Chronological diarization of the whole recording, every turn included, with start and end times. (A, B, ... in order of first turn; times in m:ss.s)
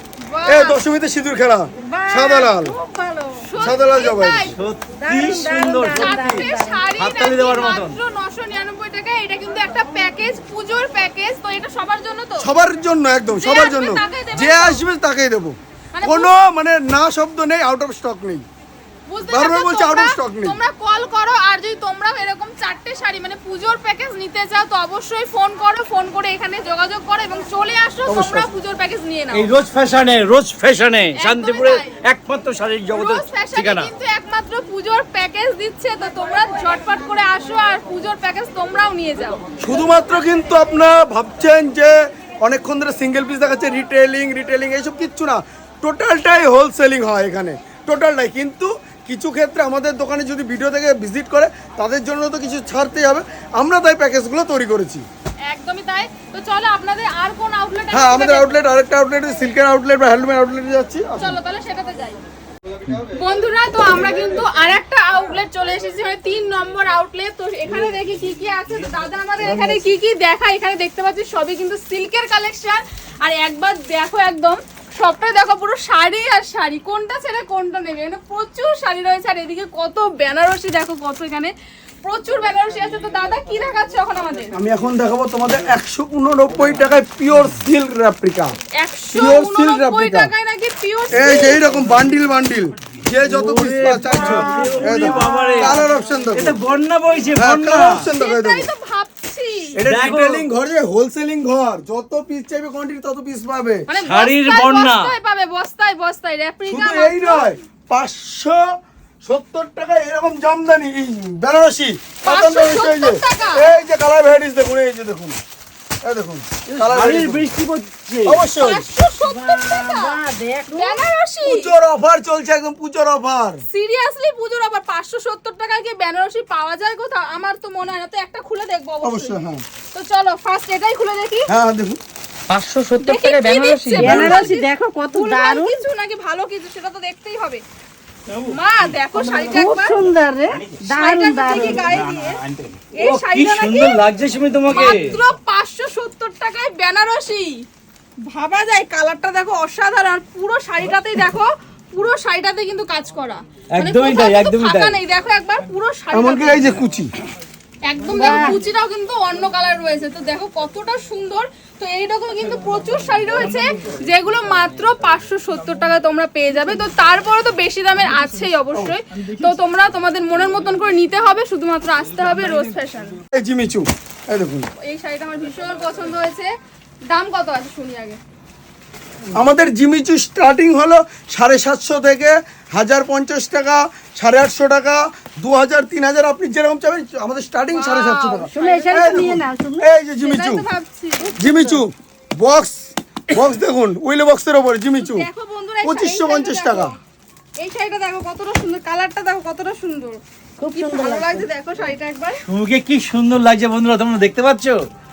0:00.2-0:00.8 A
0:00.5-0:02.8 B
0:01.9-0:03.4 C
0:03.4-0:04.6 A
0:03.6-0:04.5 B
0:04.5-0:08.0 D
0:05.0-0:06.9 C
0:05.8-0:12.5 A
0:12.4-0:18.5 B
0:13.3-0:14.8 A
0:16.0-0:16.4 A
0:19.1-0:29.5 A
0:19.3-0:20.6 B
0:28.1-0:28.5 B
0:29.3-0:33.9 D
0:31.2-0:31.9 A
0:32.9-0:39.4 A
0:39.6-0:55.0 B
0:55.5-0:58.6 A
0:57.9-1:01.4 B
1:01.2-1:02.2 A
1:03.1-1:21.5 A
1:09.4-1:09.8 B
1:22.0-1:24.5 A
1:24.6-1:28.5 B
1:28.8-1:31.6 A
1:29.1-1:30.3 B
1:31.1-1:36.6 B
1:33.2-1:35.8 D
1:34.3-1:35.6 C
1:36.4-1:38.1 D
1:37.4-1:38.7 B
1:38.1-1:39.8 A
1:39.8-1:43.9 B
1:39.8-1:40.5 D
1:43.9-1:47.5 A
1:44.0-1:45.1 D
1:46.7-1:48.6 B
1:49.2-1:55.4 B
1:52.2-1:53.7 A
1:56.0-1:57.5 B
1:56.7-1:58.5 D
1:58.3-1:58.9 B
1:58.6-2:01.7 A
1:59.2-2:01.1 C
2:01.4-2:03.6 B
2:03.7-2:09.4 A
2:09.0-2:09.6 B
2:09.9-2:11.5 A
2:11.5-2:12.0 B
2:12.5-2:14.5 E
2:13.0-2:17.6 A
2:13.9-2:15.8 C
2:18.4-2:20.0 A
2:19.1-2:22.2 C
2:20.8-2:22.4 A
2:21.5-2:25.2 D
2:23.0-2:24.0 A
2:24.7-2:27.7 A
2:28.3-2:36.8 A
2:33.7-2:35.0 D
2:36.1-2:37.1 B
2:37.8-2:53.2 A
2:38.2-2:38.6 C
2:53.3-2:54.7 B
2:54.8-2:56.5 A
2:57.1-2:58.2 A
2:59.3-3:10.6 B
3:07.7-3:09.3 A
3:08.5-3:09.9 C
3:10.2-3:11.4 A
3:11.2-3:11.8 C
3:11.4-3:15.3 B
3:15.0-3:17.0 A
3:15.8-3:17.0 B
3:17.6-3:20.2 A
3:20.6-3:21.5 C
3:20.7-3:22.4 A
3:22.4-3:24.8 D